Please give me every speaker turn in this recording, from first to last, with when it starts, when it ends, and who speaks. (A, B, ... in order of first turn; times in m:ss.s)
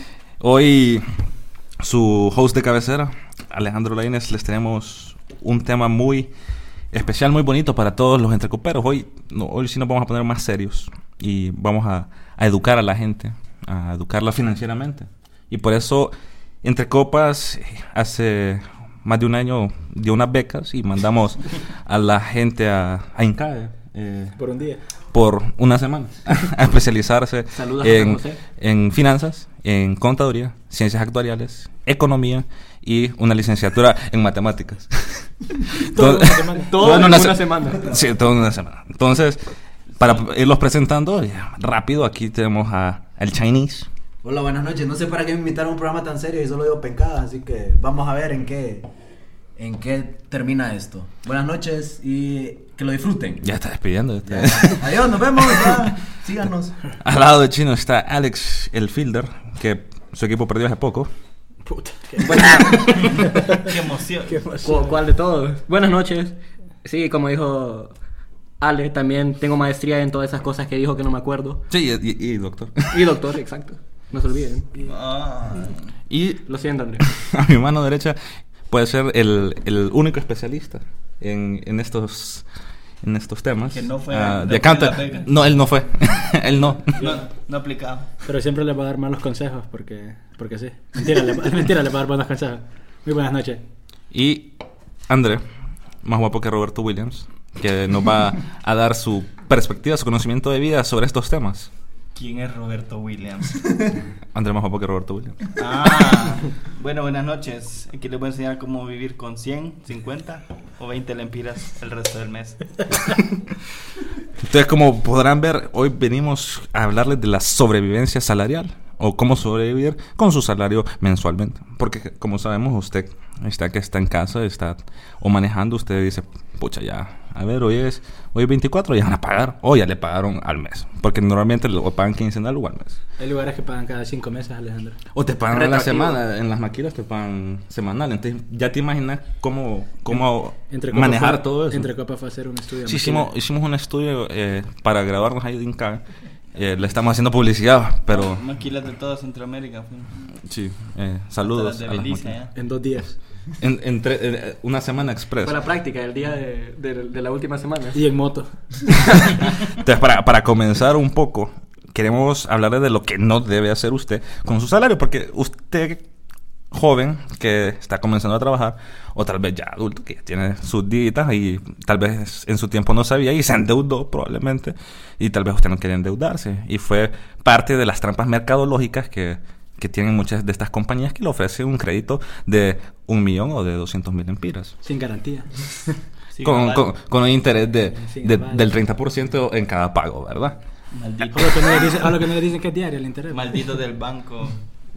0:00.4-0:01.1 A
0:01.8-0:06.3 A
0:06.9-0:24.4 A
0:24.4-0:24.8 B
0:25.1-0:39.4 A
0:27.6-0:28.4 C
0:35.8-0:37.2 B
0:36.6-0:37.8 C
0:37.7-0:38.2 D
0:40.0-0:43.9 A
0:44.2-0:48.9 D
0:49.6-0:53.5 D
0:53.4-0:55.8 A
0:54.2-0:56.8 D
0:57.0-1:01.1 A
1:01.6-1:03.7 B
1:02.2-1:03.4 C
1:03.4-1:04.4 E
1:04.2-1:05.0 B
1:04.6-1:07.9 C
1:08.6-1:11.6 C
1:11.7-1:13.1 A
1:12.9-1:14.7 C
1:14.8-1:15.8 E
1:16.1-1:16.4 A
1:16.5-1:17.0 C
1:17.0-1:18.2 A
1:18.7-1:22.4 A
1:23.0-1:27.0 A
1:23.7-1:25.3 E
1:26.9-1:28.1 E
1:27.0-1:27.2 B
1:28.2-1:33.6 B
1:34.1-1:34.5 A
1:35.1-1:35.4 A
1:36.0-1:41.7 A
1:42.2-1:43.8 E
1:44.3-1:45.5 A
1:45.6-1:52.7 E
1:54.4-2:13.0 A
2:13.2-2:15.0 B
2:15.1-2:21.9 A
2:15.5-2:16.2 C
2:20.7-2:23.3 B
2:22.9-2:26.0 A
2:26.6-2:28.4 A
2:28.1-2:30.3 E
2:30.5-2:32.4 A
2:31.4-2:32.5 E
2:32.6-2:33.2 B
2:33.6-2:35.6 A
2:35.4-2:38.0 C
2:37.9-2:38.8 B
2:39.1-2:46.0 A
2:46.7-3:04.7 A
3:04.8-3:05.9 B
3:06.3-3:06.9 E
3:06.4-3:10.6 A
3:08.0-3:08.7 B
3:10.9-3:12.2 E
3:11.3-3:13.7 B
3:13.3-3:14.6 E